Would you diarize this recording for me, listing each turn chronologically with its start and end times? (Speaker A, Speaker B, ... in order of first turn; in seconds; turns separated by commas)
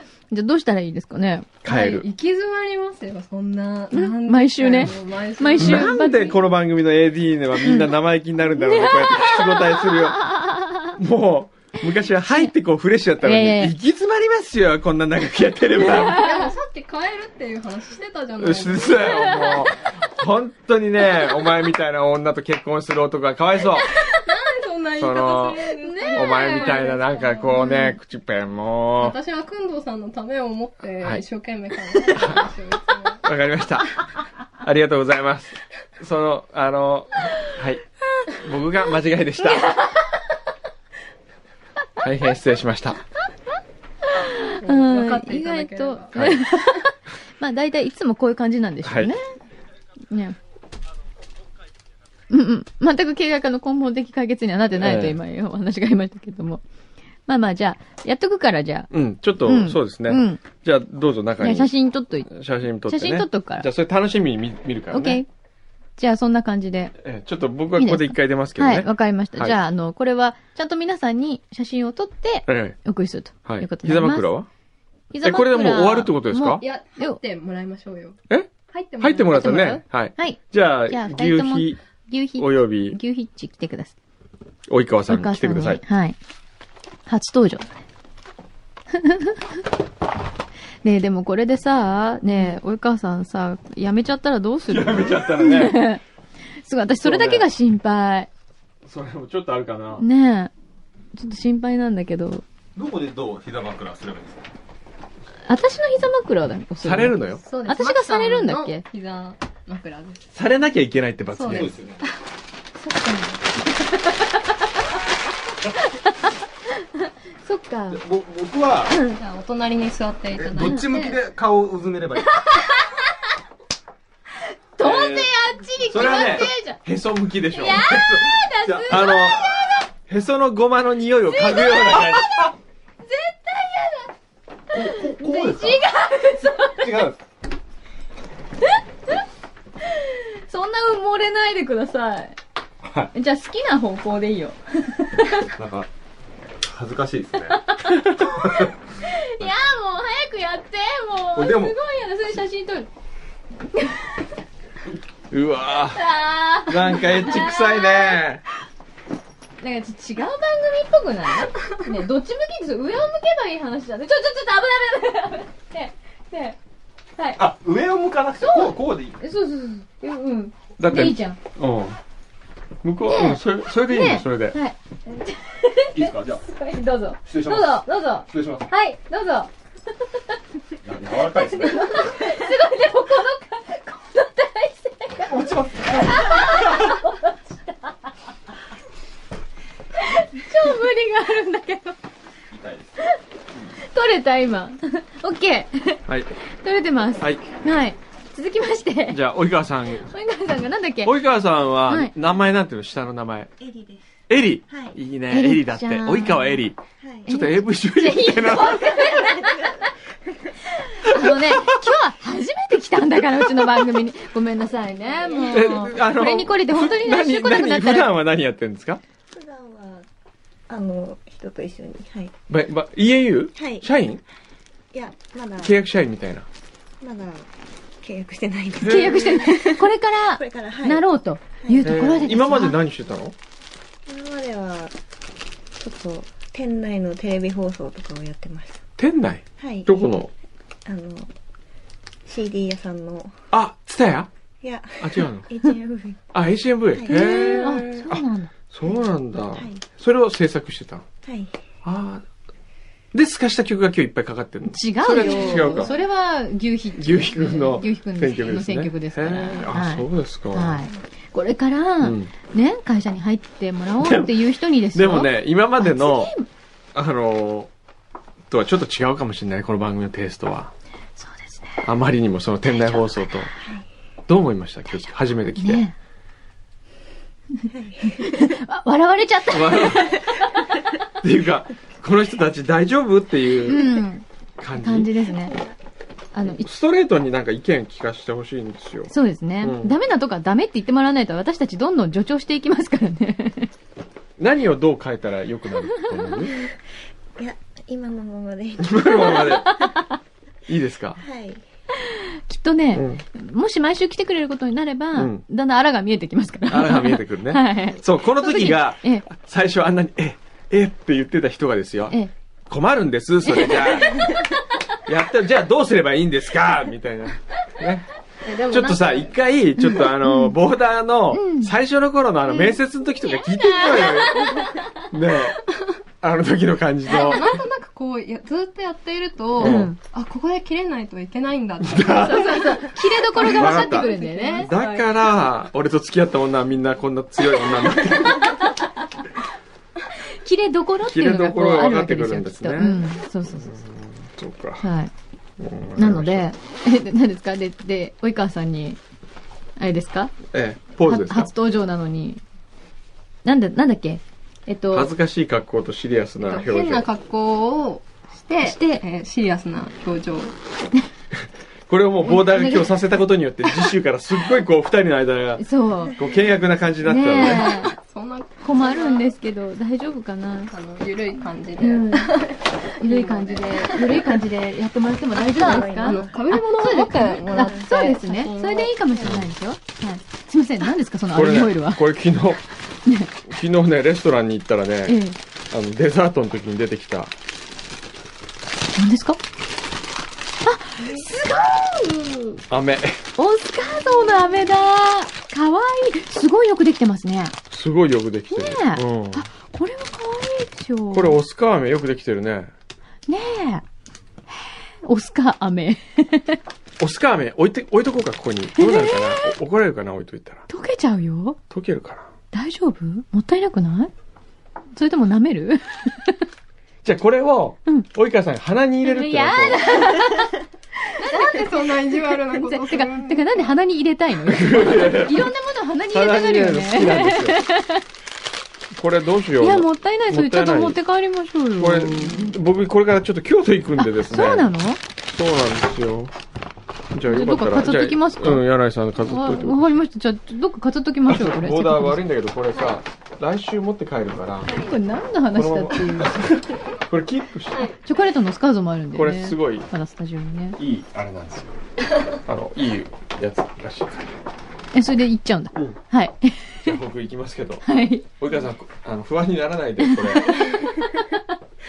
Speaker A: 0.3-1.6, Speaker B: 1.6-2.1, Speaker C: 1.7-6.4, Speaker A: 3.9-6.3, Speaker B: 5.6-10.3, Speaker A: 7.6-7.9, Speaker A: 8.6-10.9, Speaker B: 11.0-16.3, Speaker A: 13.2-13.8, Speaker C: 15.8-19.7, Speaker A: 15.8-16.5, Speaker B: 18.4-23.9, Speaker C: 24.0-27.9, Speaker B: 25.0-29.2, Speaker A: 25.8-26.9, Speaker C: 29.0-33.2, Speaker B: 32.2-32.4, Speaker B: 33.2-39.8, Speaker A: 39.7-40.0, Speaker B: 42.0-43.0, Speaker A: 44.0-49.2, Speaker C: 44.6-46.2, Speaker B: 46.1-46.5, Speaker B: 48.8-49.1, Speaker A: 50.1-50.4, Speaker A: 52.3-56.6, Speaker B: 54.8-55.2, Speaker A: 57.3-58.9, Speaker B: 58.9-61.7, Speaker A: 59.4-60.4, Speaker A: 61.4-62.3, Speaker B: 62.3-65.2, Speaker A: 62.9-63.7, Speaker A: 64.9-65.3, Speaker A: 66.0-67.0, Speaker B: 67.0-69.6, Speaker A: 67.8-74.3, Speaker B: 72.5-72.8, Speaker B: 73.5-74.5, Speaker A: 75.1-77.2, Speaker B: 75.2-76.6, Speaker C: 76.6-78.2, Speaker B: 78.3-81.8, Speaker C: 78.7-79.8, Speaker A: 79.3-84.0, Speaker B: 82.4-83.0, Speaker B: 84.7-85.8, Speaker A: 85.1-86.2, Speaker A: 87.1-87.8, Speaker A: 88.9-89.5, Speaker A: 90.8-96.0, Speaker B: 94.7-95.9, Speaker A: 96.6-98.3, Speaker B: 97.0-97.5, Speaker B: 98.8-100.0, Speaker A: 100.0-100.5, Speaker A: 101.1-102.4, Speaker D: 102.8-104.4, Speaker A: 105.5-108.8, Speaker B: 106.8-107.4, Speaker C: 107.4-110.3, Speaker B: 110.3-111.7, Speaker C: 111.3-112.1, Speaker D: 111.5-112.0, Speaker A: 112.8-114.8, Speaker A: 115.9-118.0, Speaker D: 117.9-119.0, Speaker A: 118.9-119.2, Speaker C: 119.1-121.2, Speaker D: 120.4-122.6, Speaker A: 120.6-121.1, Speaker A: 122.2-123.2, Speaker A: 124.8-126.8, Speaker B: 124.8-125.3, Speaker B: 125.9-127.9, Speaker D: 125.9-126.5, Speaker A: 127.5-129.8, Speaker D: 127.8-129.2, Speaker B: 128.9-129.4, Speaker B: 130.1-132.3, Speaker A: 131.3-132.5, Speaker A: 133.1-134.1, Speaker A: 134.7-137.1, Speaker D: 134.7-135.8, Speaker D: 136.8-137.2, Speaker A: 138.6-139.2, Speaker A: 139.8-142.4, Speaker D: 142.8-143.1, Speaker A: 143.1-145.5, Speaker D: 145.6-145.9, Speaker D: 146.6-147.7, Speaker A: 147.5-152.9, Speaker B: 147.9-148.2, Speaker D: 148.4-148.7, Speaker D: 151.3-151.8, Speaker A: 153.7-154.2, Speaker B: 155.3-156.1, Speaker A: 155.9-158.2, Speaker B: 156.7-158.4, Speaker A: 159.6-166.6, Speaker A: 167.2-167.4, Speaker D: 167.4-169.2, Speaker A: 168.4-171.4, Speaker B: 170.8-172.0, Speaker B: 172.8-174.6, Speaker A: 173.1-179.5, Speaker D: 175.9-176.4, Speaker D: 177.2-178.7, Speaker D: 180.8-182.1, Speaker A: 181.2-187.9, Speaker D: 185.2-187.0, Speaker A: 190.0-192.0, Speaker D: 192.5-193.0, Speaker A: 193.8-196.1, Speaker A: 196.6-199.2, Speaker B: 197.2-197.4, Speaker B: 199.1-200.1, Speaker A: 199.9-201.2, Speaker B: 201.0-203.5, Speaker A: 201.9-202.1, Speaker E: 203.6-204.1, Speaker B: 204.3-209.0, Speaker E: 204.7-205.0, Speaker A: 205.3-206.6, Speaker E: 207.0-207.3, Speaker A: 207.3-209.9, Speaker E: 208.8-210.6, Speaker A: 210.7-218.2, Speaker B: 211.1-211.7, Speaker E: 215.0-215.9, Speaker B: 215.5-219.0, Speaker E: 219.3-220.1, Speaker E: 220.7-222.3, Speaker B: 222.5-224.2, Speaker E: 223.6-223.9, Speaker E: 224.9-225.8, Speaker B: 225.6-226.5, Speaker E: 227.0-227.5, Speaker E: 228.0-231.1, Speaker B: 228.8-229.4, Speaker A: 228.8-232.8, Speaker E: 231.6-232.0, Speaker B: 231.8-233.3, Speaker E: 234.1-234.9, Speaker E: 235.8-238.8, Speaker B: 239.0-240.3, Speaker E: 239.6-240.1, Speaker E: 240.9-241.3, Speaker E: 242.3-243.3, Speaker B: 243.5-244.3, Speaker E: 244.6-246.2, Speaker B: 245.0-245.5, Speaker B: 246.3-251.1, Speaker E: 246.9-247.7, Speaker A: 247.1-248.5, Speaker E: 249.5-249.8, Speaker E: 251.2-251.6, Speaker B: 251.8-252.2, Speaker B: 253.1-255.9, Speaker A: 254.7-266.5, Speaker C: 255.1-255.9, Speaker E: 255.6-255.9, Speaker B: 257.0-260.9, Speaker B: 262.0-262.3, Speaker B: 264.0-266.3, Speaker B: 266.9-267.7, Speaker B: 268.5-270.7, Speaker A: 271.2-271.8, Speaker B: 271.8-273.5, Speaker E: 273.6-273.9, Speaker B: 274.3-275.9, Speaker A: 275.6-275.9, Speaker A: 277.6-280.5, Speaker E: 277.7-278.6, Speaker B: 279.5-280.2, Speaker B: 281.2-284.0, Speaker A: 283.6-285.6, Speaker B: 284.6-285.1, Speaker E: 285.2-285.8, Speaker A: 286.3-286.7, Speaker B: 286.6-289.9, Speaker A: 289.1-293.7, Speaker B: 294.4-296.6, Speaker E: 296.5-296.8, Speaker E: 297.4-299.8, Speaker B: 298.8-299.8, Speaker A: 299.3-300.1, Speaker B: 300.7-301.2, Speaker E: 301.2-301.6, Speaker A: 302.0-309.3, Speaker B: 302.9-303.2, Speaker B: 305.2-305.4, Speaker B: 306.7-312.2, Speaker B: 312.7-314.3, Speaker A: 313.6-314.0, Speaker B: 315.1-318.1, Speaker C: 318.4-319.4, Speaker B: 318.7-325.6, Speaker A: 320.2-320.6, Speaker A: 321.3-321.7, Speaker A: 323.7-324.8, Speaker B: 326.2-327.6, Speaker C: 327.1-335.1, Speaker B: 329.6-329.9, Speaker A: 329.6-330.0, Speaker B: 331.8-332.6, Speaker A: 332.2-334.7, Speaker B: 333.4-338.6, Speaker A: 340.4-343.8, Speaker B: 341.1-343.1, Speaker B: 343.6-344.8, Speaker A: 344.8-345.1, Speaker B: 345.6-346.5, Speaker A: 346.0-349.0, Speaker A: 349.8-350.4, Speaker B: 350.5-351.5, Speaker A: 351.1-352.4, Speaker A: 353.4-355.1, Speaker B: 354.9-357.1, Speaker C: 356.4-360.6, Speaker A: 358.6-359.0, Speaker B: 361.9-365.6, Speaker A: 362.3-362.9, Speaker A: 365.6-366.2, Speaker B: 366.2-367.8, Speaker A: 367.0-367.9, Speaker C: 367.5-369.3, Speaker A: 368.6-370.8, Speaker C: 370.7-374.3, Speaker A: 371.8-372.4, Speaker A: 373.0-382.0, Speaker E: 375.4-376.4, Speaker C: 375.6-379.0, Speaker E: 377.5-377.9, Speaker B: 379.2-379.5, Speaker B: 381.3-382.6, Speaker A: 383.1-383.3, Speaker B: 383.4-387.3, Speaker A: 385.1-385.4, Speaker A: 388.9-389.4, Speaker A: 390.6-392.6, Speaker B: 392.7-393.2, Speaker A: 393.4-397.6, Speaker B: 397.7-399.5, Speaker A: 398.5-401.4, Speaker B: 401.1-402.7, Speaker A: 403.3-403.9, Speaker A: 404.5-406.6, Speaker B: 407.0-410.6, Speaker A: 408.8-409.5, Speaker A: 410.7-411.6, Speaker B: 411.7-412.3, Speaker A: 412.5-414.1, Speaker A: 415.0-416.4, Speaker B: 417.0-420.1, Speaker A: 419.0-420.6, Speaker A: 421.1-428.0, Speaker C: 421.2-423.7, Speaker B: 424.5-425.5, Speaker B: 426.1-427.6, Speaker B: 428.9-431.0, Speaker A: 429.6-432.6, Speaker B: 431.8-434.7, Speaker A: 434.0-435.0, Speaker B: 435.3-436.3, Speaker B: 437.1-440.0, Speaker A: 437.3-438.6, Speaker A: 439.2-442.2, Speaker B: 441.3-444.9, Speaker A: 444.7-446.6, Speaker B: 445.5-447.9, Speaker A: 447.9-450.8, Speaker B: 449.1-449.9, Speaker B: 450.8-451.7, Speaker B: 452.3-454.4, Speaker A: 454.9-457.0, Speaker B: 456.8-457.9, Speaker A: 457.8-458.3, Speaker B: 458.4-460.8, Speaker A: 460.1-461.4